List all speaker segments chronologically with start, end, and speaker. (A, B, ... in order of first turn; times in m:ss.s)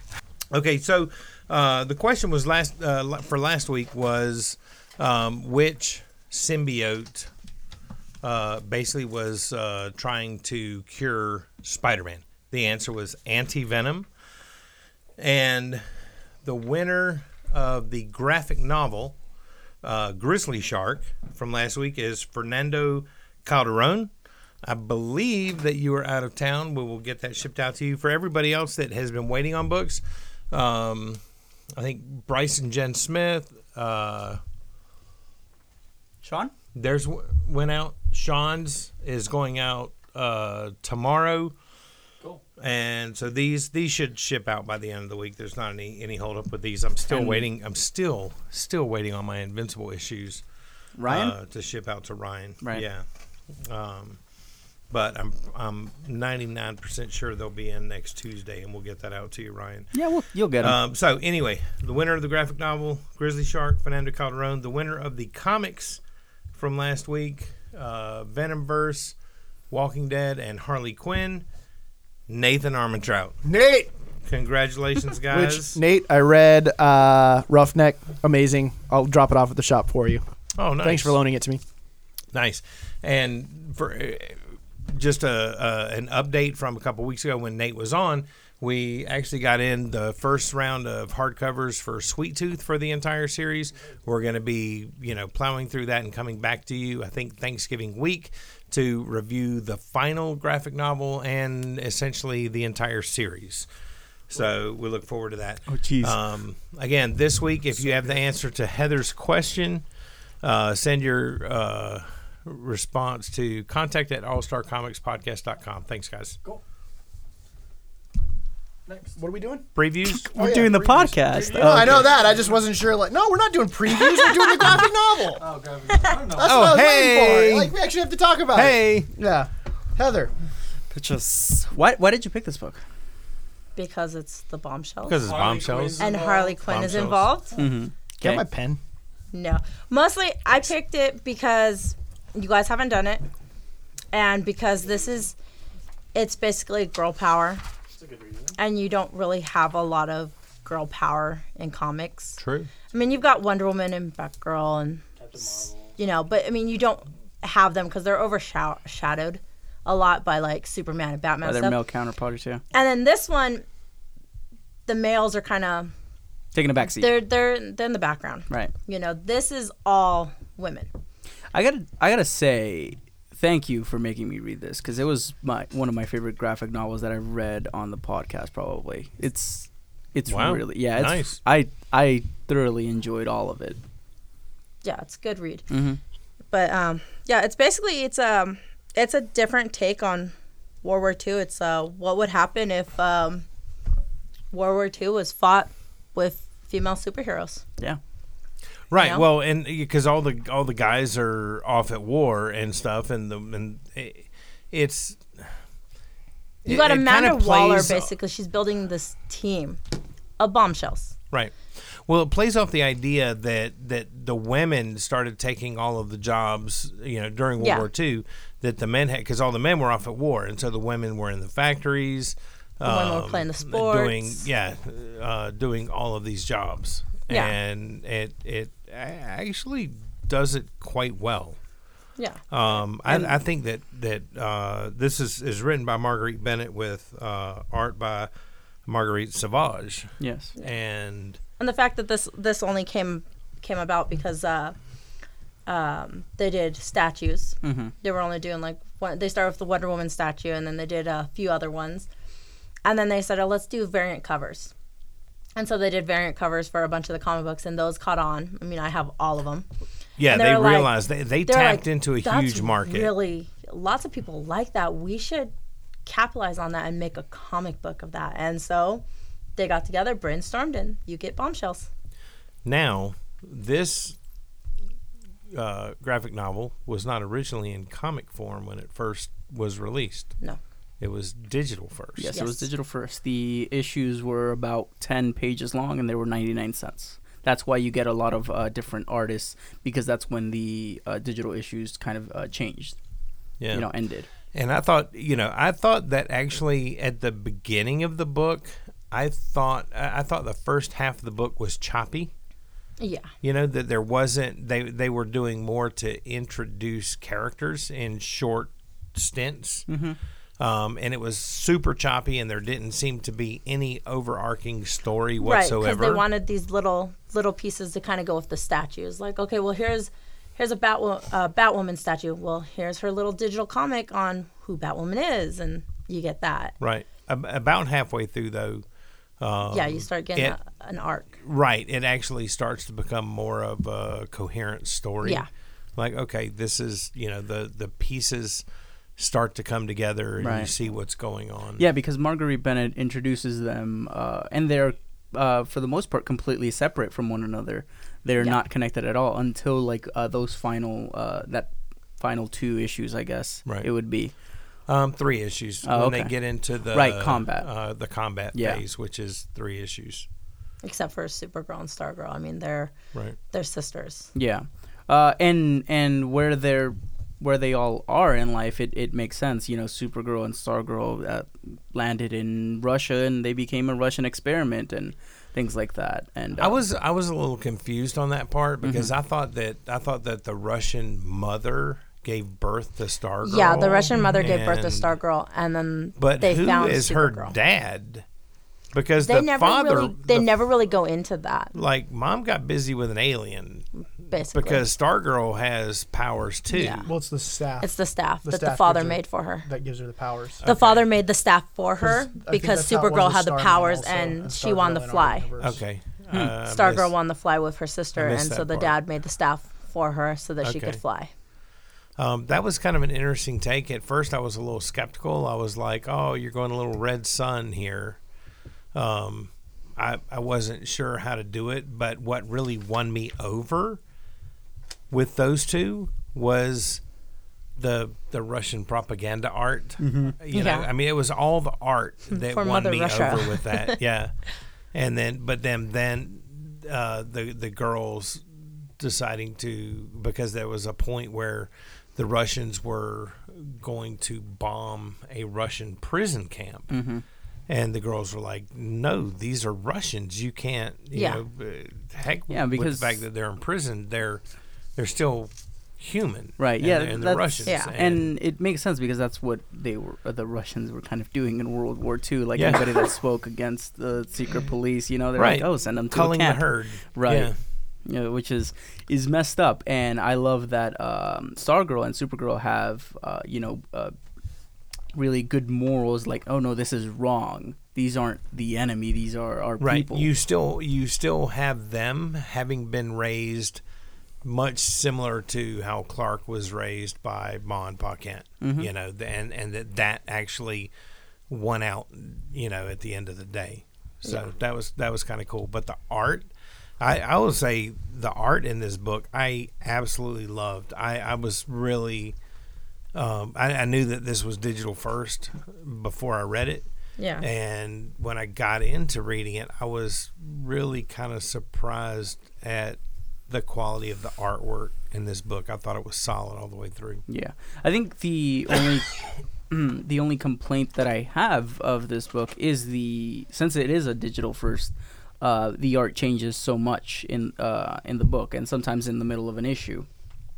0:00.5-0:07.3 A
0:08.2-0:14.1 A
0:15.2-0:15.8 A
0:16.4-0:19.2 A
0:19.8-0:24.1 A
0:24.6-0:31.2 A
0:31.8-0:34.4 A
0:36.2-0:36.5 B
0:36.7-0:41.5 A
0:42.6-0:50.4 A
0:47.1-0:47.5 B
0:51.0-0:51.3 B
0:51.0-0:53.0 A
0:53.6-0:54.2 A
0:54.9-0:59.9 A
0:59.9-1:00.8 B
1:00.6-1:06.0 A
1:06.5-1:09.1 A
1:09.7-1:11.4 A
1:12.3-1:13.4 A
1:13.4-1:13.9 C
1:14.2-1:15.8 A
1:15.3-1:20.2 C
1:20.6-1:21.2 A
1:20.8-1:21.6 C
1:22.3-1:43.7 A
1:44.3-1:49.8 A
1:45.7-1:46.2 B
1:47.8-1:48.2 D
1:50.4-1:56.4 A
1:58.8-1:59.2 D
1:59.2-1:59.7 C
1:59.7-2:00.3 A
2:00.0-2:02.1 B
2:00.2-2:05.4 C
2:01.3-2:02.6 D
2:05.3-2:06.8 D
2:06.3-2:10.3 C
2:06.4-2:07.7 A
2:08.5-2:09.1 A
2:10.9-2:12.8 B
2:13.8-2:15.4 E
2:15.0-2:17.4 A
2:15.2-2:16.6 D
2:15.9-2:17.6 E
2:17.5-2:18.4 B
2:18.2-2:18.8 C
2:19.3-2:23.2 E
2:24.1-2:25.3 E
2:26.1-2:27.6 E
2:27.9-2:28.6 D
2:28.6-2:35.0 E
2:32.4-2:32.7 A
2:35.2-2:35.9 D
2:35.8-2:41.8 E
2:41.4-2:42.6 B
2:42.7-2:43.6 E
2:44.9-2:45.9 E
2:46.5-2:47.2 B
2:46.8-2:50.9 E
2:51.5-3:03.8 B
3:00.3-3:01.4 A
3:04.8-3:05.7 E
3:05.7-3:06.0 B
3:06.5-3:13.4 E
3:14.5-3:17.6 E
3:18.9-3:25.5 A
3:19.0-3:19.2 E
3:26.6-3:28.1 A
3:26.6-3:29.8 E
3:30.4-3:31.1 E
3:31.3-3:51.6 A
3:37.6-3:37.9 E
3:42.8-3:44.5 E
3:47.3-3:47.6 E
3:52.5-3:58.3 A
3:53.1-3:53.4 B
3:58.8-4:01.4 A
4:00.2-4:00.5 B
4:01.6-4:04.8 E
4:05.6-4:12.1 E
4:07.6-4:07.9 B
4:12.8-4:14.7 E
4:15.6-4:19.6 E
4:20.2-4:23.1 A
4:20.3-4:25.5 E
4:26.0-4:29.0 E
4:29.6-4:31.9 E
4:32.6-4:34.2 A
4:35.5-4:40.3 A
4:41.0-4:42.4 A
4:42.2-4:53.0 B
4:42.3-4:42.7 E
4:53.6-4:53.9 A
4:53.7-4:54.3 B
4:54.5-5:02.3 A
5:03.0-5:03.3 E
5:03.4-5:09.8 A
5:09.9-5:10.2 B
5:10.6-5:16.2 A
5:15.4-5:26.7 E
5:26.8-5:28.8 A
5:29.4-5:30.6 A
5:29.7-5:31.4 E
5:31.4-5:38.6 A
5:35.2-5:35.5 E
5:39.2-5:41.8 A
5:40.4-5:40.7 B
5:41.8-5:54.3 B
5:54.9-6:00.2 A
5:55.8-5:57.7 B
5:58.5-5:58.8 B
6:00.8-6:03.0 E
6:03.5-6:04.3 E
6:04.3-6:16.8 B
6:16.6-6:25.1 A
6:18.8-6:19.1 B
6:23.4-6:27.6 E
6:26.2-6:28.2 A
6:28.9-6:30.6 A
6:29.2-6:31.7 E
6:31.7-6:33.8 A
6:34.3-6:34.8 E
6:34.5-6:37.1 A
6:36.7-6:37.1 E
6:37.0-6:37.9 C
6:37.8-6:39.6 E
6:38.4-6:40.6 C
6:40.6-6:41.0 A
6:40.6-6:45.5 E
6:42.0-6:45.8 C
6:45.6-6:47.1 A
6:46.6-6:51.3 E
6:48.1-6:49.0 A
6:50.6-6:51.0 A
6:52.2-6:58.2 A
6:58.9-7:04.0 A
7:05.1-7:07.0 A
7:07.8-7:14.3 A
7:10.0-7:10.4 B
7:10.5-7:10.9 E
7:12.3-7:14.0 E
7:14.9-7:18.5 A
7:19.0-7:26.9 A
7:26.9-7:27.2 B
7:27.7-7:34.4 A
7:31.1-7:31.4 E
7:32.5-7:33.2 B
7:35.0-7:38.3 A
7:36.6-7:47.5 B
7:37.6-7:37.9 E
7:42.5-7:43.0 A
7:45.3-7:47.6 A
7:48.0-7:54.1 B
7:55.1-8:00.3 B
7:59.8-8:03.8 A
8:04.4-8:10.9 A
8:08.6-8:08.9 B
8:11.5-8:22.3 A
8:23.1-8:26.9 A
8:27.2-8:27.4 E
8:27.4-8:37.2 A
8:37.3-8:39.2 B
8:39.7-8:50.1 B